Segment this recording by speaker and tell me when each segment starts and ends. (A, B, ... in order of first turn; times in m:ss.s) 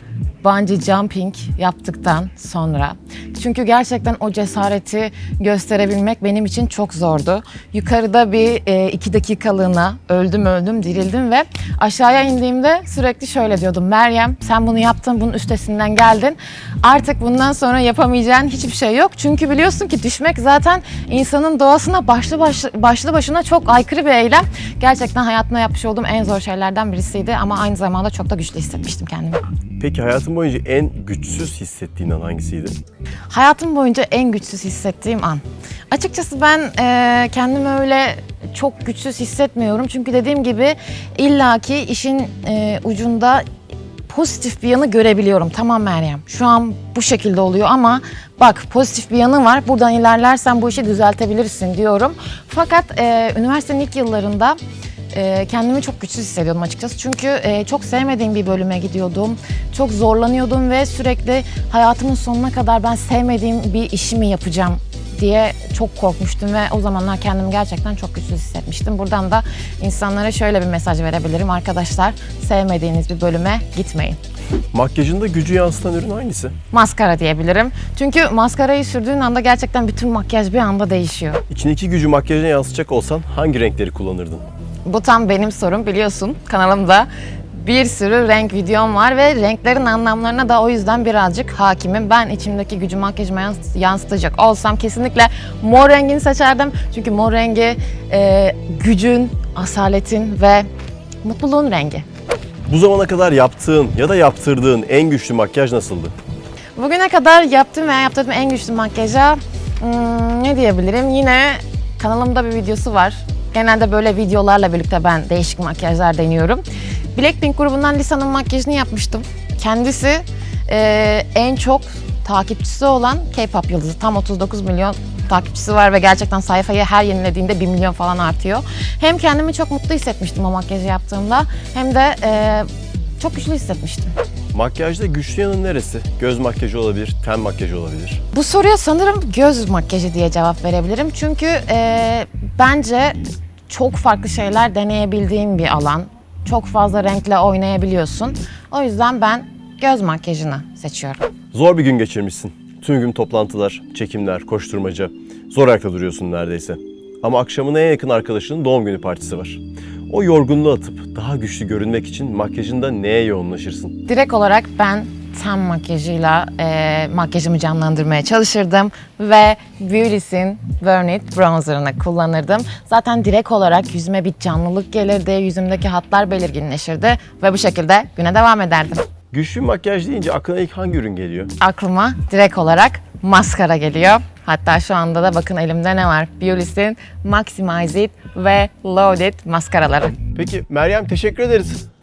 0:00.4-0:29.4 A
0:29.8-0:32.8 B
0:33.3-0:43.4 A
0:44.1-0:54.6 A
0:55.1-1:14.2 A
1:14.7-1:16.5 B
1:16.7-1:21.4 A
1:21.5-1:24.4 B
1:24.8-1:40.7 A
1:41.2-1:42.0 A
1:42.7-1:46.1 B
1:46.8-1:56.6 A
1:57.1-2:12.7 A
2:13.2-2:14.1 A
2:14.5-2:18.2 B
2:18.3-2:23.2 A
2:23.7-2:31.2 A
2:31.5-2:44.0 B
2:44.1-2:59.0 A
2:59.3-3:01.5 B
3:01.6-3:10.2 A
3:10.3-3:11.8 B